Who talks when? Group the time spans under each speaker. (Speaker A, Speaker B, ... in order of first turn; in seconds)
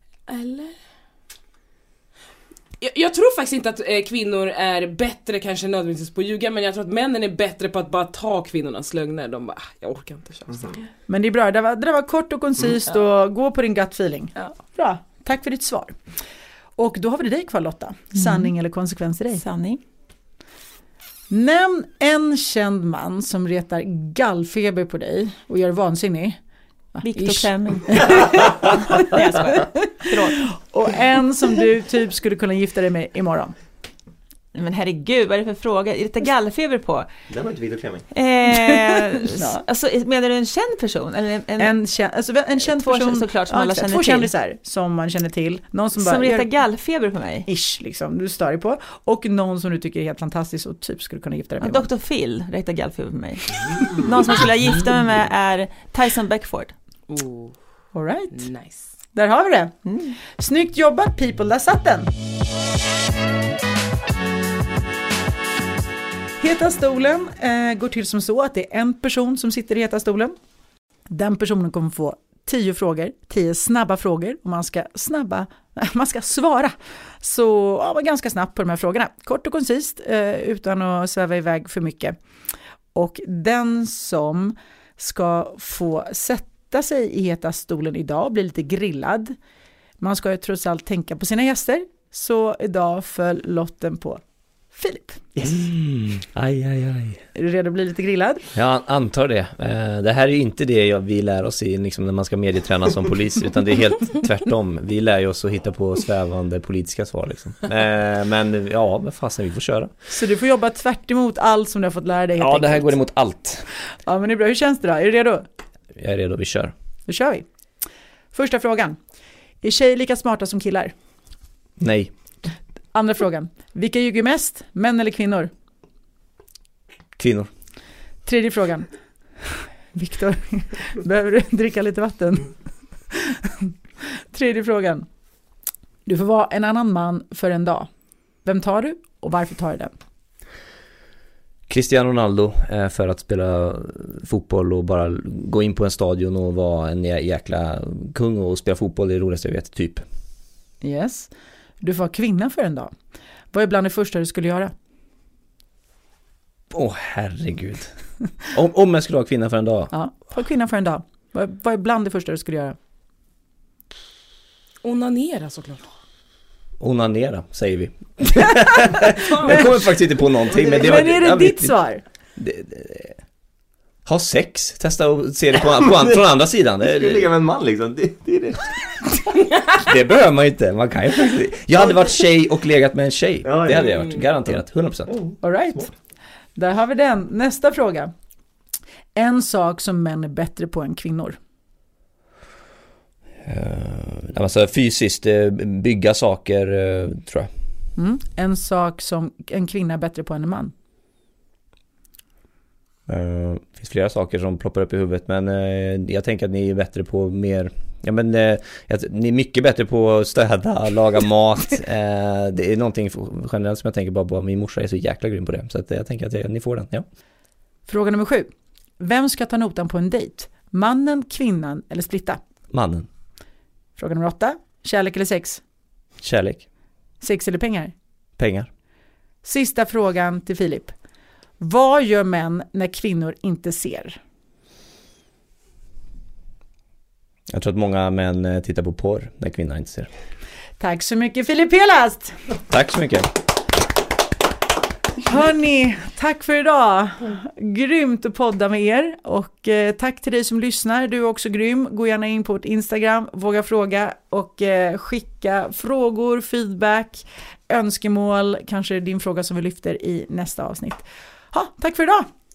Speaker A: 0.3-0.7, 2.8-10.9, 57.1-57.6, 58.3-58.9, 164.8-165.9, 169.2-169.7
Speaker B: 10.5-10.8, 28.2-28.7, 37.3-38.1, 175.8-176.2, 176.8-179.3, 183.4-184.1, 185.1-185.9
Speaker C: 11.1-16.1, 16.8-19.4, 21.3-26.4, 26.9-33.5, 38.5-39.6, 41.6-46.5, 47.5-51.9, 57.9-58.5, 59.1-62.1, 66.4-70.4, 71.1-82.2, 82.9-89.4, 90.0-95.6, 97.3-98.5, 110.1-113.0, 113.8-115.5, 117.1-117.5, 118.3-119.0, 119.6-120.9, 122.9-125.5, 128.3-128.9, 129.4-132.6, 133.1-135.1, 136.1-137.9, 138.4-139.9, 150.8-152.9, 153.5-154.7, 159.9-162.8, 170.4-172.0, 185.4-185.9, 186.6-188.1, 189.2-191.4, 198.0-200.7, 217.9-222.4, 224.0-225.6, 227.2-227.9, 229.4-231.0, 231.6-234.2, 240.8-242.4, 245.2-262.3
Speaker D: 18.2-18.5, 19.4-19.8, 27.0-30.6, 34.5-37.1, 38.1-41.7, 42.7-44.3, 46.0-47.5, 51.6-56.7, 59.9-60.2
Speaker E: 95.5-97.3, 98.5-109.9, 112.4-113.7, 116.0-116.7, 121.8-122.1, 127.2-127.5, 141.7-150.1, 156.7-159.9, 166.8-171.8, 172.4-173.2, 174.1-177.3, 179.8-185.1, 193.4-197.5, 203.1-217.1, 222.7-223.1, 226.2-226.7, 228.4-228.7, 237.5-240.1, 242.7-243.3